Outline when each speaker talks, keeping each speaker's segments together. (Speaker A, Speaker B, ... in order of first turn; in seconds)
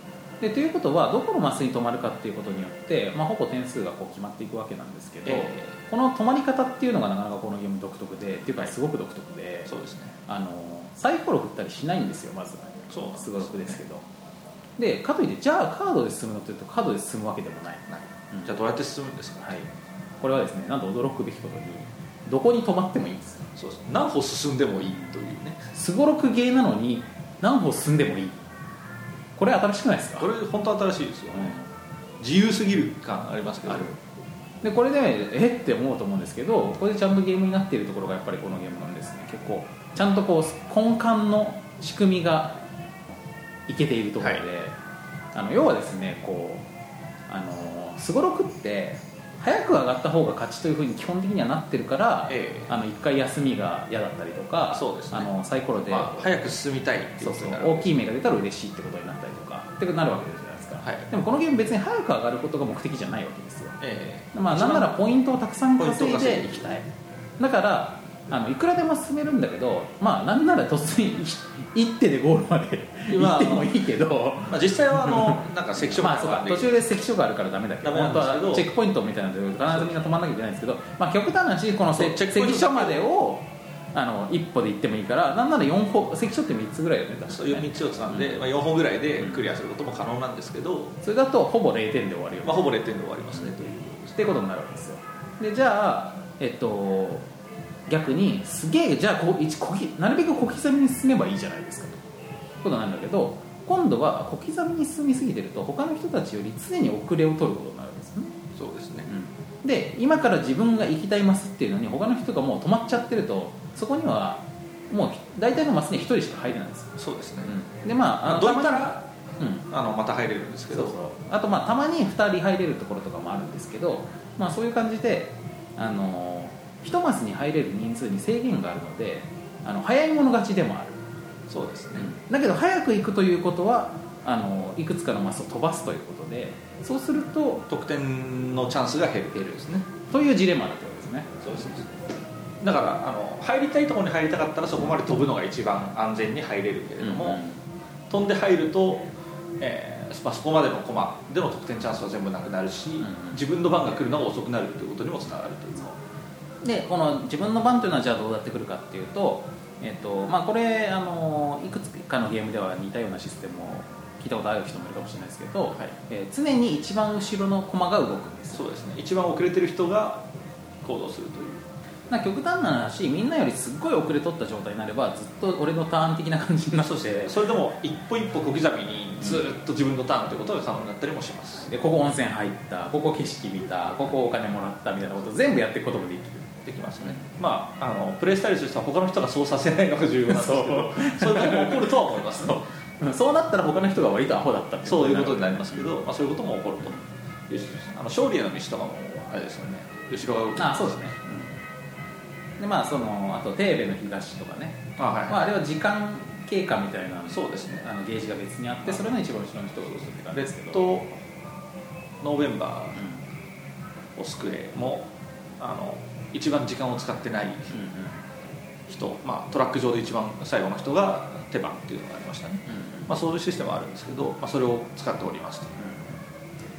Speaker A: 0.4-9.7, 10.2-14.0, 14.8-18.5, 19.4-19.7, 20.2-23.5, 25.7-28.5, 29.4-30.3, 31.3-31.6, 34.6-42.6, 43.7-44.8, 45.3-46.6, 47.3-56.3, 57.2-63.8, 64.3-66.9, 67.4-75.4, 76.0-88.4, 91.0-92.6, 94.1-97.3, 97.9-102.0, 102.6-108.3, 109.1-119.7, 120.7-131.0, 132.0-137.7, 140.1-141.7, 147.0-147.6, 153.0-153.4, 156.6-168.6, 172.1-177.4, 181.7-186.5, 190.3-195.9, 200.6-201.5, 202.6-210.8, 212.9-213.2, 217.7-218.2, 222.7-223.1, 225.8-226.1
Speaker B: 5.2-5.7, 9.7-10.2, 12.9-13.8, 17.9-19.5, 23.6-25.6, 30.2-31.6, 32.2-33.9, 44.2-44.4, 52.3-52.7, 54.7-55.3, 55.9-57.9, 60.8-61.1, 63.8-64.9, 65.8-66.7, 73.1-73.8, 74.5-76.8, 77.8-78.7, 81.9-83.0, 87.3-91.0, 92.4-94.2, 108.5-109.1, 117.0-117.5, 118.2-119.0, 119.7-120.9, 131.5-132.1, 137.7-139.9, 141.4-141.9, 142.6-147.4, 148.1-149.1, 149.6-156.0, 168.5-170.2, 170.8-171.6, 176.8-181.7, 186.6-192.6, 194.8-197.0, 197.5-201.1, 205.0-205.4, 207.3-207.8, 210.3-211.2, 212.2-213.0, 214.2-217.8, 218.9-225.8